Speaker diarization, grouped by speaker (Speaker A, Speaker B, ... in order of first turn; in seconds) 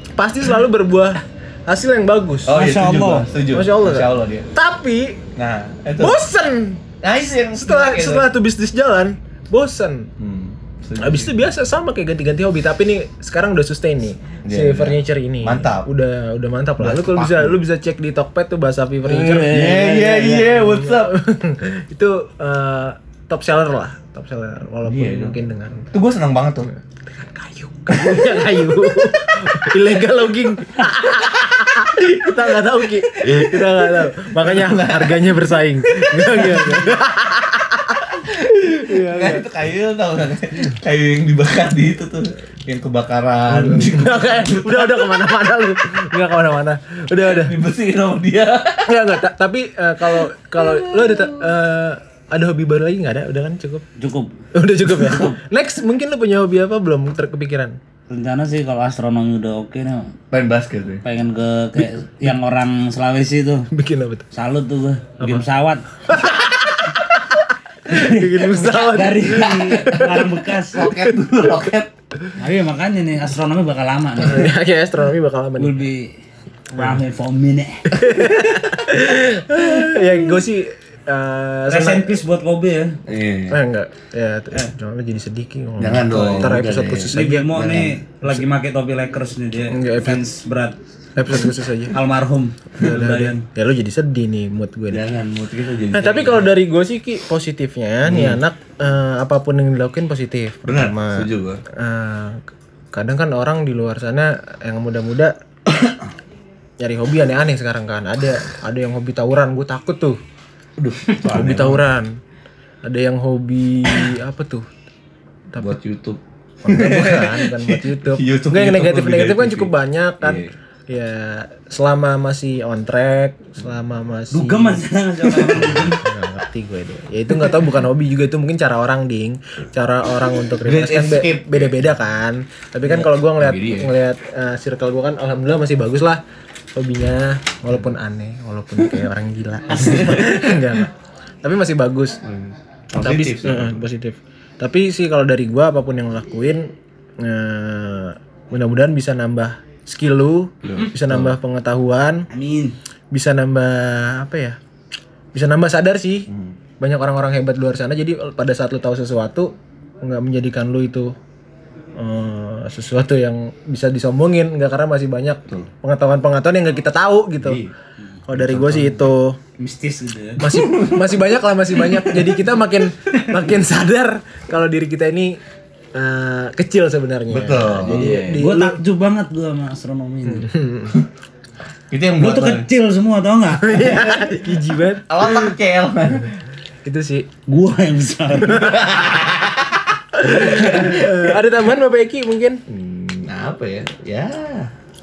Speaker A: 0.1-2.6, 3.5-5.2, 6.0-6.9, 7.5-10.1, 11.0-25.9, 26.6-39.5, 43.5-47.6, 48.9-53.8, 54.5-57.8, 63.7-64.3, 66.1-70.2, 74.2-75.8, 77.9-82.2, 83.5-87.6, 89.7-90.2, 91.2-92.0, 92.8-95.0, 95.9-105.3, 106.8-110.2, 111.2-112.2, 112.8-114.7, 116.6-124.8, 125.7-136.2, 136.7-140.9, 141.4-142.2, 142.9-152.3, 153.1-154.6, 155.3-156.3, 156.8-161.1, 162.0-167.6, 168.3-169.4, 170.4-175.4, 175.9-178.8, 180.3-181.0, 183.5-185.5, 186.8-187.3, 190.1-192.6
Speaker B: 2.5-4.5, 5.3-6.2, 7.0-8.3, 10.2-11.4, 14.4-15.9, 16.8-17.6, 19.2-21.2, 24.9-25.4, 25.9-26.7, 31.1-37.0, 38.1-45.1, 47.3-49.0, 50.1-51.5, 60.3-61.0, 69.3-71.9, 83.1-83.6, 85.8-87.9, 94.9-96.5, 98.0-98.4, 100.6-101.6, 105.7-106.1, 110.8-111.8, 115.6-120.5, 125.2-125.8, 130.6-131.9, 133.0-133.9, 139.7-140.7, 142.2-143.8, 150.6-151.3, 167.4-167.7, 168.3-169.0, 170.4-172.4, 177.3-178.5, 181.9-182.7, 185.1-186.3, 188.5-191.2, 192.7-194.7
Speaker C: 2.5-3.3, 19.1-20.5, 54.0-54.3, 54.9-55.4, 58.1-60.1, 61.0-63.7, 64.3-65.8, 67.9-70.9, 72.3-74.5, 75.6-76.1, 76.7-78.0, 81.7-83.0, 87.1-90.8, 91.9-93.4, 124.3-126.1, 139.7-140.4, 152.3-152.8, 169.6-170.5, 177.8-180.5, 182.2-184.0, 187.5-188.8